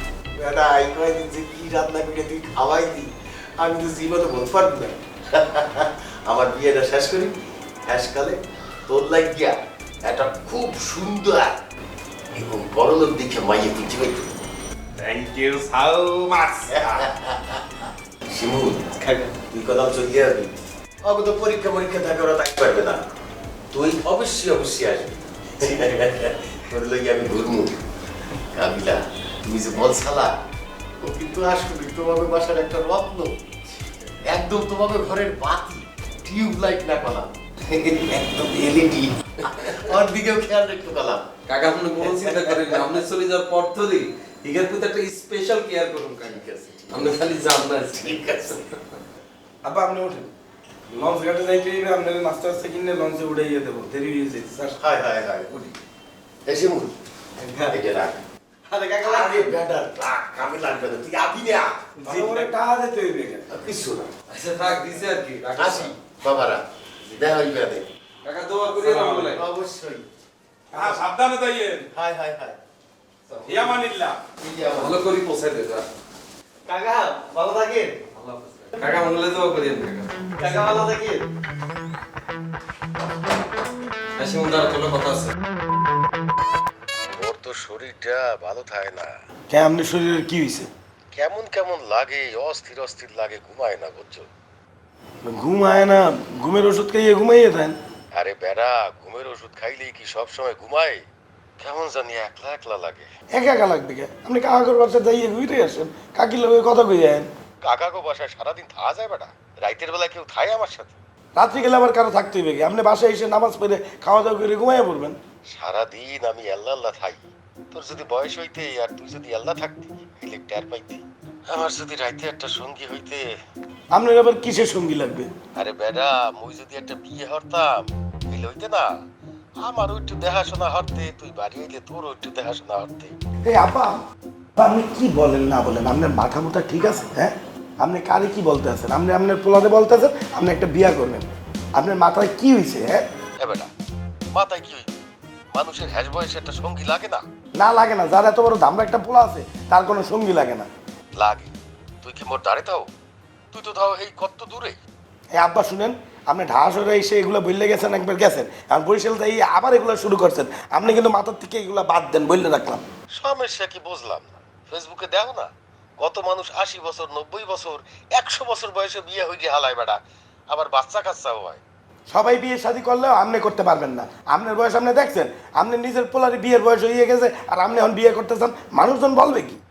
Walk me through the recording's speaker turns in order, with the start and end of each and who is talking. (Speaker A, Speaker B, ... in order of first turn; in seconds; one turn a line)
Speaker A: 0.4-7.3
Speaker A: 7.8-11.6
Speaker A: 12.3-14.3
Speaker B: 15.0-16.6
Speaker A: 16.7-23.0
Speaker A: 23.7-27.8
Speaker A: 28.3-30.3
Speaker A: 31.0-33.4
Speaker A: 34.1-41.3
Speaker C: 41.5-48.5
Speaker A: 42.0-43.0
Speaker A: 46.2-47.2
Speaker A: 47.9-48.6
Speaker D: 49.6-50.3
Speaker D: 50.9-54.8
Speaker A: 54.8-55.7
Speaker A: 56.5-56.9
Speaker D: 57.4-57.7
Speaker A: 57.7-58.2
Speaker D: 58.7-59.6
Speaker A: 59.0-61.8
Speaker D: 62.0-63.5
Speaker A: 63.5-64.1
Speaker C: 64.3-66.0
Speaker A: 65.6-67.8
Speaker C: 68.2-69.5
Speaker A: 68.9-70.1
Speaker D: 70.7-71.6
Speaker B: 71.0-71.8
Speaker A: 71.9-72.6
Speaker A: 73.3-75.0
Speaker C: 73.5-73.8
Speaker B: 73.8-74.2
Speaker C: 74.7-75.9
Speaker A: 76.7-78.1
Speaker C: 78.1-80.3
Speaker A: 80.4-81.3
Speaker C: 84.2-85.3
Speaker A: 87.2-89.1
Speaker D: 89.5-90.7
Speaker A: 91.1-94.3
Speaker D: 95.2-97.8
Speaker A: 98.1-101.0
Speaker A: 101.6-103.1
Speaker D: 103.3-107.3
Speaker A: 107.6-111.0
Speaker D: 111.4-115.2
Speaker A: 115.5-123.4
Speaker D: 123.9-125.3
Speaker A: 125.6-128.9
Speaker A: 129.6-133.2
Speaker D: 133.4-134.0
Speaker D: 134.6-143.0
Speaker A: 143.4-143.7
Speaker A: 144.3-144.9
Speaker A: 145.5-147.2
Speaker D: 147.6-150.7
Speaker A: 151.2-152.9
Speaker A: 153.5-154.8
Speaker D: 155.4-162.8
Speaker A: 163.2-170.0
Speaker A: 170.5-171.6
Speaker D: 172.1-179.6